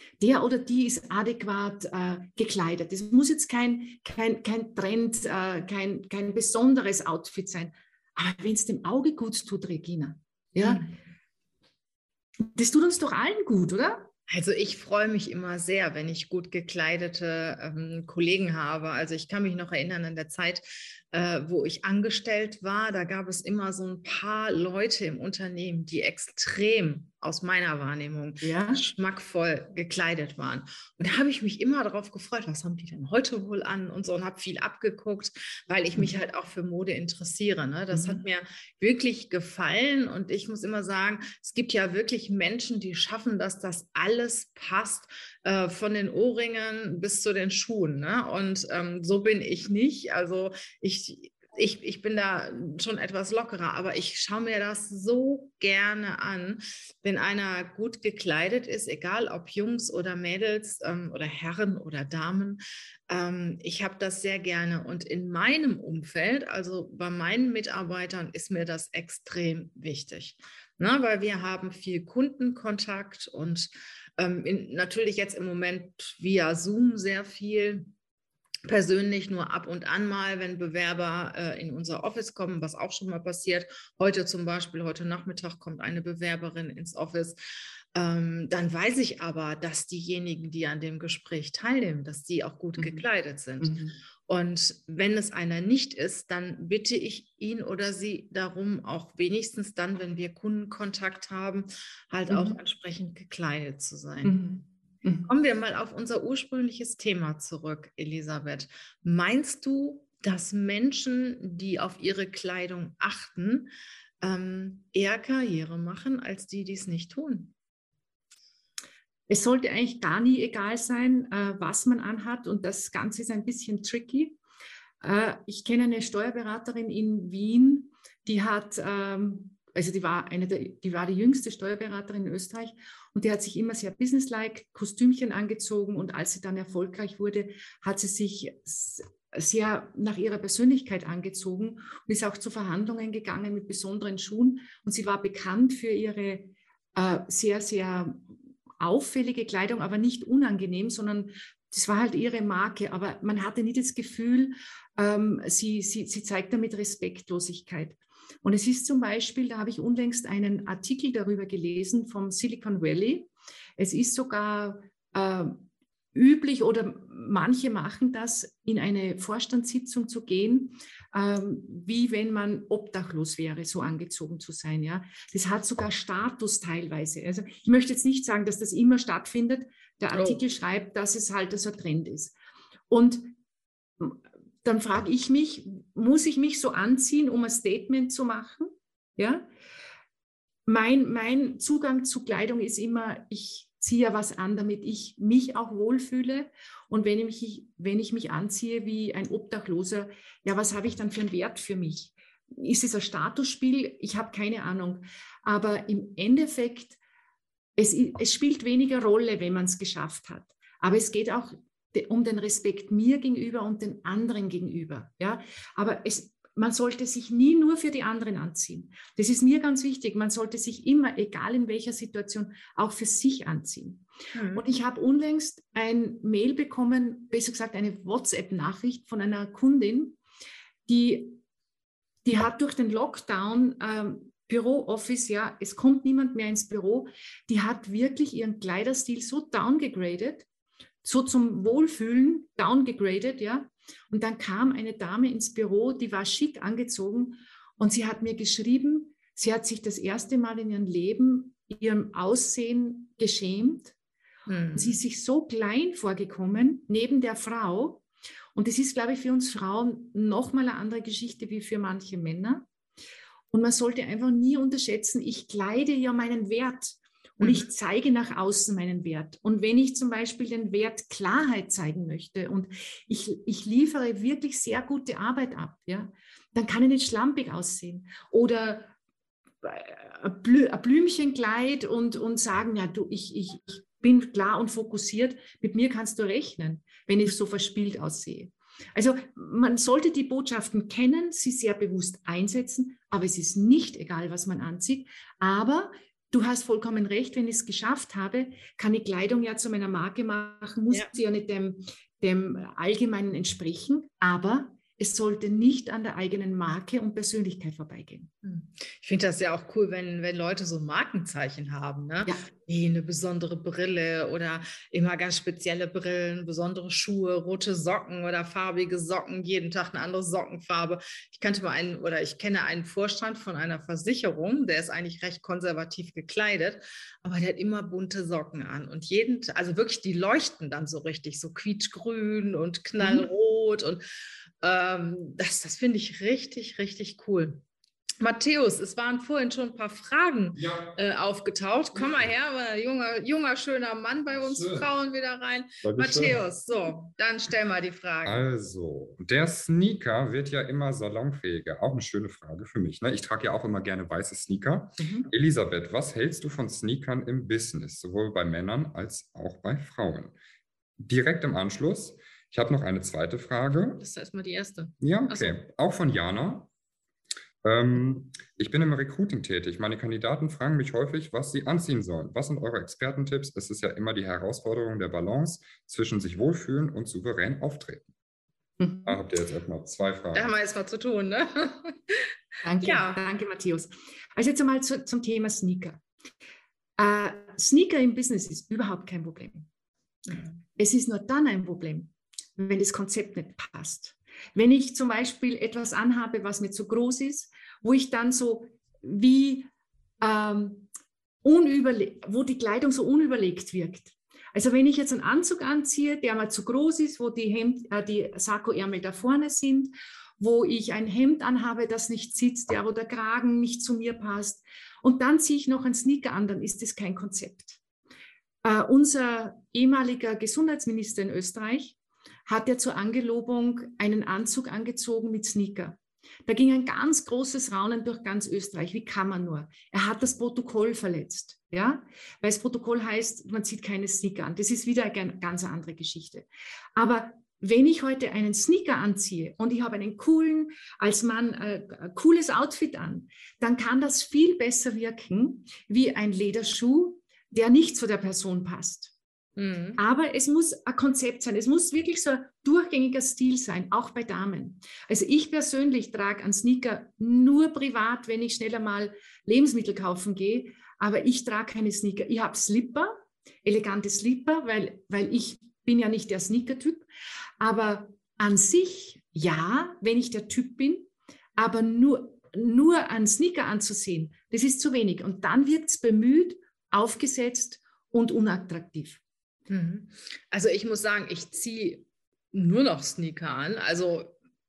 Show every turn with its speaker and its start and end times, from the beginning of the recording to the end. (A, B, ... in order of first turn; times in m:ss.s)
0:00.2-0:10.8 A
0:10.6-0:10.9 B
0:12.4-0:14.1 A
0:14.3-1:17.9 B
0:28.4-0:28.8 A
0:37.9-0:38.2 A
1:18.6-1:27.4 B
1:27.9-1:33.7 B
1:32.8-1:33.0 A
1:33.6-1:34.0 A
1:34.2-1:44.4 B
1:42.3-1:42.6 A
1:44.2-1:45.3 A
1:45.3-1:53.7 B
1:54.2-1:57.5 B
1:59.3-2:04.4 A
2:05.0-3:02.3 A
3:00.1-3:00.4 B
3:02.9-3:03.3 A
3:04.0-3:09.4 A
3:10.6-3:27.0 A
3:27.8-3:50.2 A
3:44.3-3:44.6 B
3:50.8-3:51.4 A
3:52.2-4:00.4 A
4:01.0-4:13.9 A
4:14.5-4:15.0 B
4:14.7-4:18.0 A
4:18.5-4:22.6 A
4:23.5-4:38.9 A
4:27.4-4:27.7 B
4:39.6-5:08.3 A
5:08.4-5:34.0 B
5:33.0-5:33.3 A
5:34.6-5:37.6 B
5:38.2-5:48.4 B
5:40.6-5:40.9 C
5:44.6-5:44.8 C
5:45.8-5:46.4 C
5:48.2-6:00.3 C
5:55.0-5:55.3 A
6:01.0-6:04.0 C
6:04.0-6:05.6 B
6:05.0-6:06.7 C
6:07.6-6:18.0 C
6:18.8-6:19.2 A
6:19.0-6:20.5 C
6:20.3-6:22.3 B
6:22.6-6:26.0 A
6:22.8-6:23.2 B
6:27.0-6:29.7 A
6:30.8-6:39.7 A
6:40.2-6:40.9 A
6:41.4-6:57.8 A
6:58.6-7:02.0 A
7:02.5-7:29.1 A
7:29.6-7:30.0 B
7:30.0-7:47.0 A
7:47.6-7:59.2 A
7:59.7-8:04.4 B